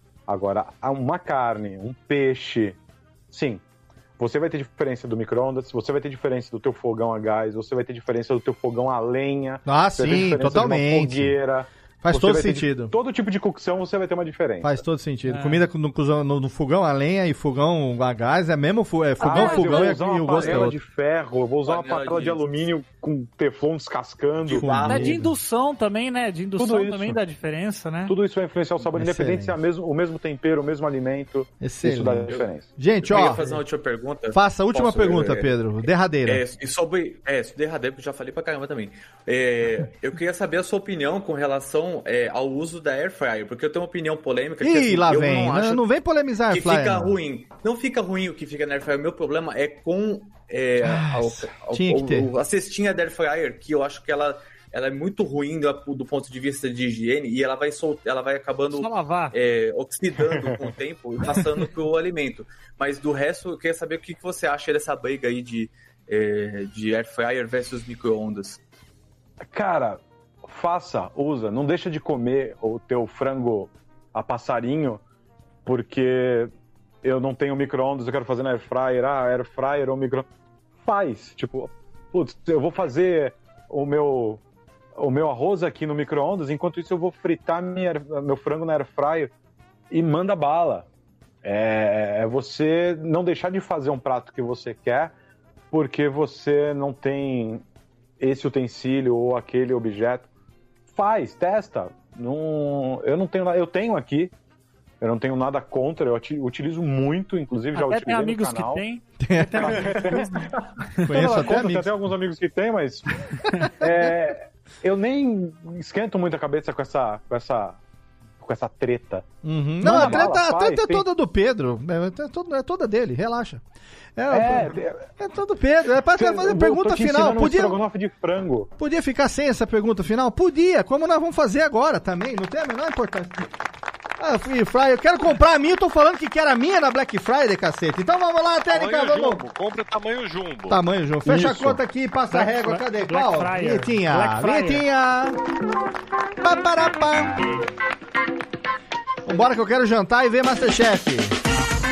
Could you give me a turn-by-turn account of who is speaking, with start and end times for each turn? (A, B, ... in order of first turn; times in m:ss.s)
0:00.3-0:02.8 A
0:03.3-0:03.6 A
0:04.2-0:14.8 A
0:09.7-0:11.4 B
0:12.0-0:12.9 B
0:14.6-0:20.8 B
0:15.3-0:15.6 C
0:19.2-0:20.0 C
0:19.2-0:24.8 A
0:20.3-0:20.7 D
0:21.6-0:22.4 D
0:24.4-0:25.2 D
0:24.6-0:25.3 B
0:24.8-0:28.2 C
0:26.6-0:27.2 A
0:28.1-0:33.6 A
0:28.9-0:29.6 B
0:31.6-0:33.4 B
0:33.0-0:35.5 D
0:34.3-0:36.4 B
0:36.3-0:45.8 D
0:44.6-0:47.2 B
0:46.5-1:08.6 D
0:50.8-0:52.3 B
0:58.7-0:59.3 C
1:09.5-1:15.0 A
1:15.6-1:16.5 A
1:17.0-1:20.3 A
1:20.8-1:24.4 A
1:25.0-1:29.3 A
1:29.9-1:30.9 A
1:31.4-1:35.2 A
1:35.7-1:37.6 A
1:38.2-1:40.3 A
1:40.9-1:44.3 A
1:45.0-1:48.8 A
1:47.8-1:50.5 C
1:49.2-1:50.3 B
1:49.6-1:57.8 A
1:51.0-1:51.9 B
1:58.4-1:59.3 A
1:59.4-2:03.6 B
1:59.8-2:01.0 A
1:59.8-2:00.2 C
2:04.2-2:07.8 B
2:04.3-2:05.1 A
2:06.2-2:08.7 A
2:08.8-2:13.5 B
2:14.2-2:19.4 B
2:18.7-2:20.8 E
2:20.7-2:25.4 B
2:21.2-2:21.8 A
2:22.3-2:24.8 C
2:26.4-2:27.5 B
2:29.2-2:31.4 B